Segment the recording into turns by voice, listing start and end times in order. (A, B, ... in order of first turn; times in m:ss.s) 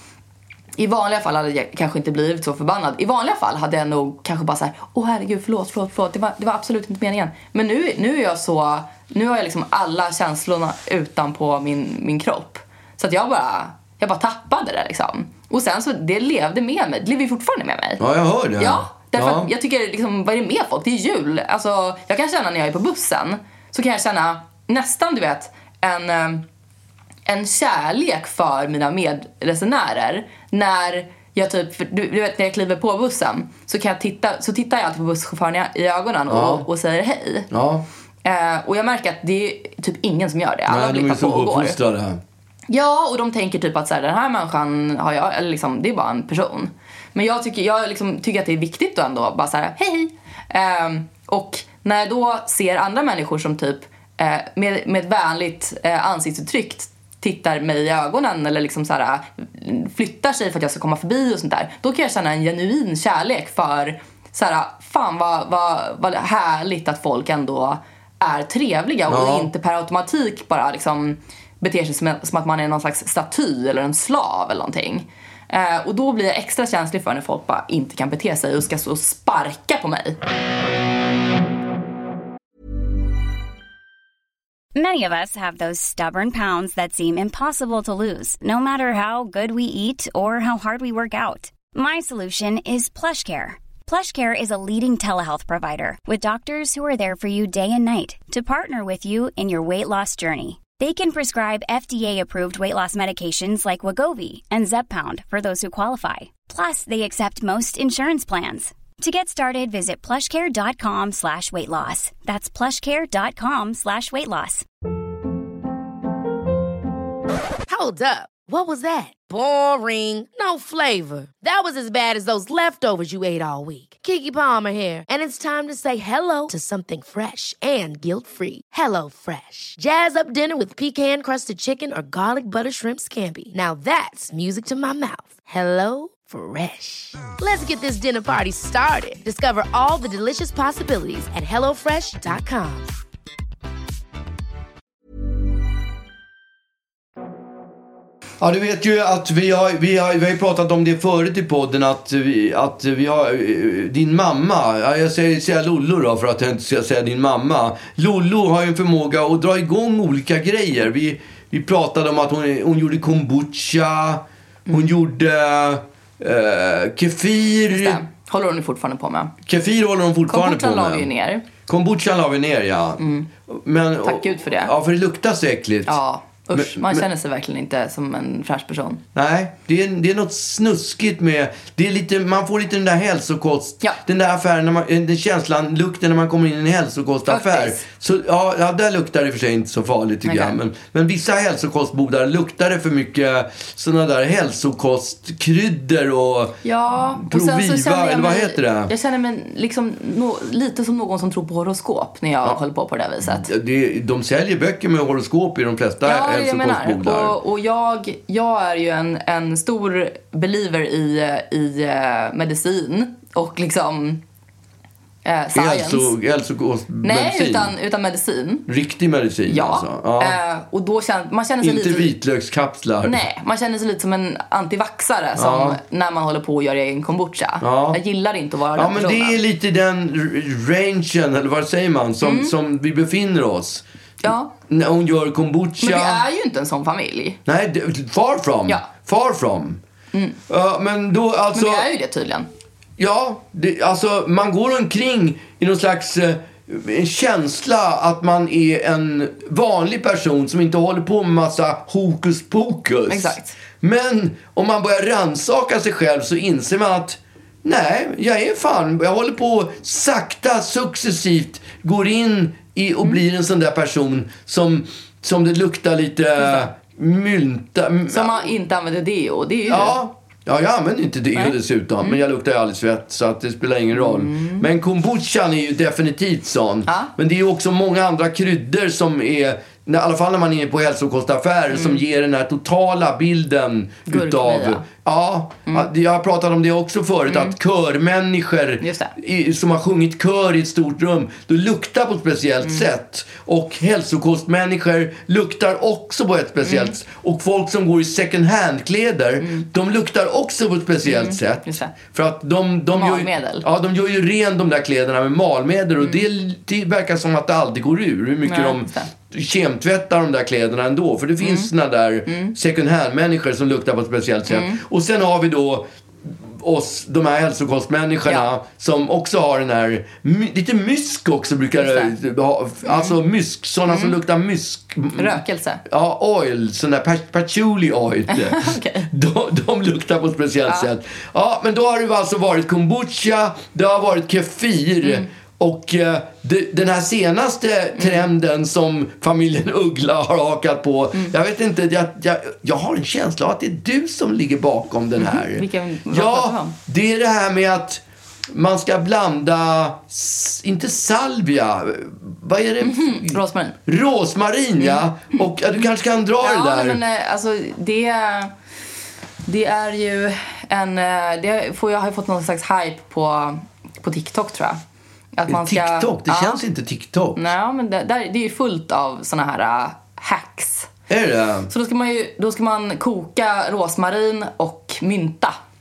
0:00.8-0:18.0 A
0:18.0-0:19.5 B
0:18.6-0:26.4 A
0:27.3-0:37.5 A
0:36.3-0:36.7 B
0:37.5-0:37.8 B
0:38.2-0:41.8 A
0:40.7-0:42.2 B
0:42.7-1:20.2 A
1:09.1-1:09.5 B
1:24.8-1:54.6 C
1:57.7-2:22.9 D
2:28.4-2:48.0 B
2:47.7-2:49.3 A
2:49.4-2:51.1 B
2:50.3-2:51.5 A
2:51.6-2:56.0 B
2:53.0-2:53.3 A
2:54.0-2:54.7 A
2:55.9-2:59.0 A
2:56.5-2:57.1 B
2:59.2-3:16.6 B
3:07.3-3:07.8 A
3:10.3-3:10.6 A
3:16.6-3:23.5 A
3:17.2-3:18.9 B
3:23.2-3:27.4 B
3:26.0-3:34.2 A
3:35.2-3:36.2 A
3:35.5-3:37.8 B
3:37.0-3:38.7 A
3:38.7-3:40.4 B
3:39.5-3:42.1 A
3:41.6-3:43.2 B
3:43.0-3:49.4 A
3:45.4-3:45.8 B
3:47.6-3:48.0 B
3:48.7-3:53.8 B
3:52.2-3:52.5 A
3:54.2-3:54.5 A
3:54.6-3:56.2 B
3:55.8-3:57.4 A
3:57.5-3:59.8 B
4:00.5-4:01.9 B
4:01.5-4:02.5 A
4:03.0-4:28.5 B
4:13.1-4:13.6 A
4:26.4-4:26.7 A
4:28.1-4:30.0 A
4:29.7-5:57.0 B
4:31.4-4:32.2 A
4:33.9-4:34.7 A
4:36.9-4:37.1 A
4:41.7-4:42.0 A
4:44.1-4:44.8 A
4:47.3-4:47.6 A
4:48.8-4:49.1 A
4:56.6-4:57.0 A
4:59.4-4:59.7 A
5:01.0-5:01.9 A
5:02.9-5:03.6 A
5:06.0-5:06.2 A
5:08.4-5:09.1 A
5:11.4-5:11.7 A
5:12.3-5:12.6 A
5:14.5-5:14.8 A
5:21.8-5:22.1 A
5:22.8-5:23.2 A
5:23.9-5:24.2 A
5:25.2-5:25.8 A
5:28.3-5:29.1 A
5:38.0-5:38.2 A
5:45.2-5:46.8 A
5:52.8-5:53.8 A
5:54.8-5:55.4 A
5:56.4-5:58.5 A
5:59.4-6:04.8 A
6:05.4-6:06.6 A
6:05.5-6:07.4 B
6:07.4-6:10.9 A
6:11.1-6:11.7 B
6:11.7-6:15.6 A